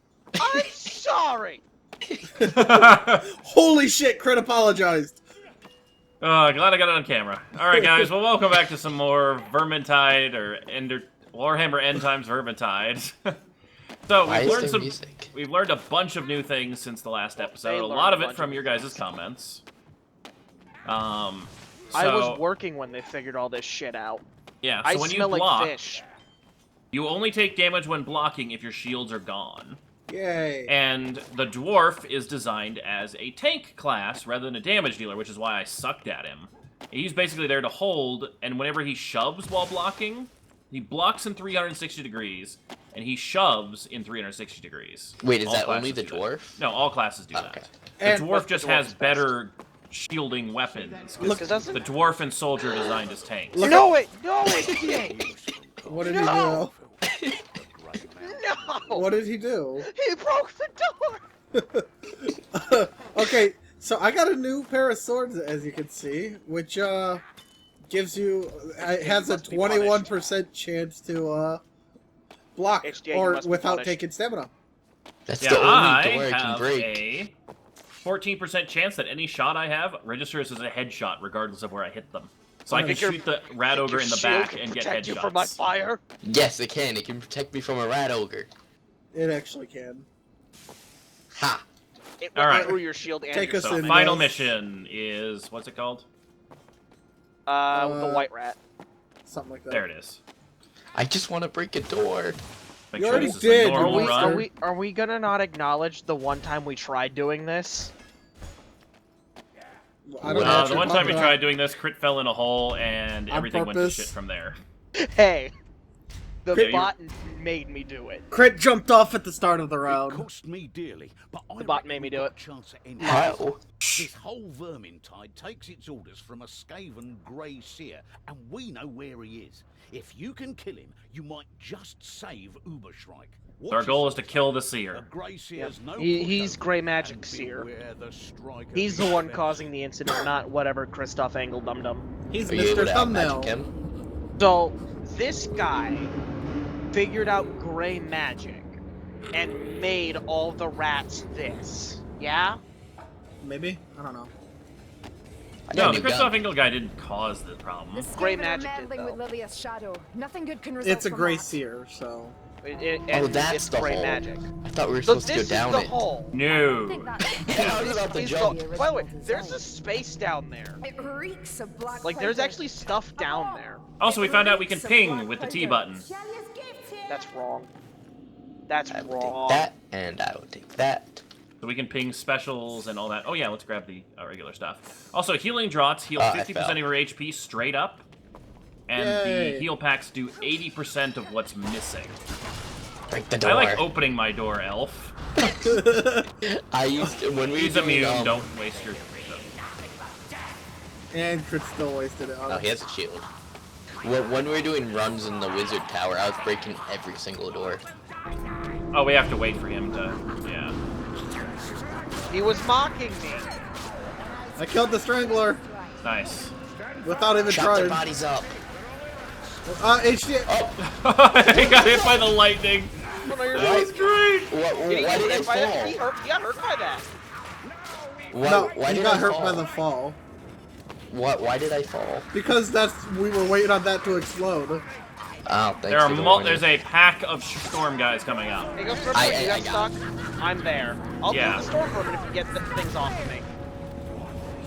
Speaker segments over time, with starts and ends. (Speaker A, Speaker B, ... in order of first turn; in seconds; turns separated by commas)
Speaker A: 0.4-0.7, Speaker B: 0.4-1.6, Speaker C: 2.4-5.2, Speaker D: 2.5-3.2, Speaker D: 6.2-13.1, Speaker C: 7.7-8.1, Speaker D: 14.1-19.6, Speaker A: 14.2-15.3, Speaker B: 17.4-19.0, Speaker D: 20.9-22.4, Speaker B: 21.9-24.2, Speaker D: 24.6-25.8, Speaker B: 24.8-26.1, Speaker D: 26.9-29.8, Speaker C: 30.1-30.7, Speaker D: 30.7-53.7, Speaker A: 45.2-46.6, Speaker A: 47.3-47.7, Speaker C: 48.0-48.4, Speaker B: 48.4-49.3, Speaker E: 50.7-52.2, Speaker B: 51.2-51.9, Speaker C: 51.2-51.6, Speaker C: 53.5-53.9, Speaker B: 53.6-55.2, Speaker E: 54.5-59.0, Speaker C: 55.9-56.7, Speaker B: 56.0-56.6, Speaker A: 57.1-57.4, Speaker B: 58.2-59.1, Speaker C: 58.9-59.9, Speaker B: 59.9-61.2, Speaker C: 61.5-67.2, Speaker C: 67.9-71.6, Speaker B: 68.8-70.1, Speaker D: 69.4-69.7, Speaker C: 72.6-74.5, Speaker B: 72.8-74.0, Speaker A: 75.3-77.0, Speaker D: 75.4-77.3, Speaker D: 78.0-85.6, Speaker C: 82.7-83.0, Speaker B: 82.7-86.0, Speaker A: 86.2-88.5, Speaker C: 89.1-90.1, Speaker A: 91.3-91.6, Speaker B: 92.2-93.8, Speaker D: 92.3-92.8, Speaker C: 92.5-92.8, Speaker C: 93.3-94.5, Speaker D: 93.5-96.1, Speaker B: 97.5-98.6, Speaker C: 97.7-98.3, Speaker C: 99.2-99.8, Speaker D: 99.7-100.2, Speaker A: 100.9-102.4, Speaker D: 102.9-104.5, Speaker C: 103.0-104.5, Speaker B: 103.2-107.9, Speaker C: 110.1-111.4, Speaker A: 110.2-110.9, Speaker D: 110.3-114.6, Speaker C: 113.3-114.1, Speaker B: 115.0-115.5, Speaker B: 116.5-118.3, Speaker C: 116.5-116.9, Speaker D: 116.5-116.9, Speaker C: 118.3-120.3, Speaker E: 119.8-139.7, Speaker B: 121.6-122.3, Speaker B: 123.0-123.4, Speaker A: 123.0-123.6, Speaker D: 123.8-124.1, Speaker D: 133.7-135.1, Speaker B: 135.6-137.7, Speaker B: 138.7-142.1, Speaker C: 142.3-143.5, Speaker A: 142.5-143.7, Speaker B: 144.4-146.1, Speaker B: 146.9-148.8, Speaker B: 149.3-152.6, Speaker C: 153.4-154.3, Speaker A: 155.7-156.4, Speaker D: 155.7-158.1, Speaker F: 157.9-161.6, Speaker B: 158.1-159.2, Speaker C: 160.8-162.4, Speaker B: 162.6-164.5, Speaker A: 163.1-166.1, Speaker B: 165.1-166.4, Speaker D: 166.3-167.2, Speaker F: 166.4-169.6, Speaker A: 167.3-168.6, Speaker B: 167.5-170.8, Speaker F: 170.8-177.2, Speaker B: 172.0-173.8, Speaker D: 174.0-176.1, Speaker B: 177.1-177.7, Speaker B: 178.7-179.7, Speaker A: 178.9-181.2, Speaker D: 181.6-188.1, Speaker A: 186.2-186.8, Speaker D: 188.9-192.2, Speaker C: 188.9-189.7, Speaker A: 193.1-193.9, Speaker D: 193.4-195.1, Speaker A: 195.4-195.8, Speaker C: 195.6-196.3, Speaker A: 196.4-198.5, Speaker D: 197.6-199.5, Speaker C: 201.1-202.7, Speaker A: 202.5-203.3, Speaker A: 204.0-207.8, Speaker D: 208.9-210.8, Speaker B: 212.3-213.5, Speaker F: 214.4-216.0, Speaker C: 214.6-215.6, Speaker D: 216.0-216.5, Speaker C: 217.0-218.0, Speaker A: 217.5-218.5, Speaker C: 219.7-220.5, Speaker A: 220.5-220.8, Speaker D: 220.8-223.0, Speaker B: 223.2-224.0, Speaker A: 223.5-223.9, Speaker D: 223.6-224.5, Speaker A: 224.5-226.0, Speaker B: 224.9-227.1, Speaker A: 228.3-229.7, Speaker C: 228.4-230.2, Speaker A: 231.1-232.3, Speaker C: 232.3-234.8, Speaker A: 235.5-236.7, Speaker D: 235.9-238.7, Speaker B: 238.8-243.5, Speaker A: 239.1-239.9, Speaker D: 241.3-241.7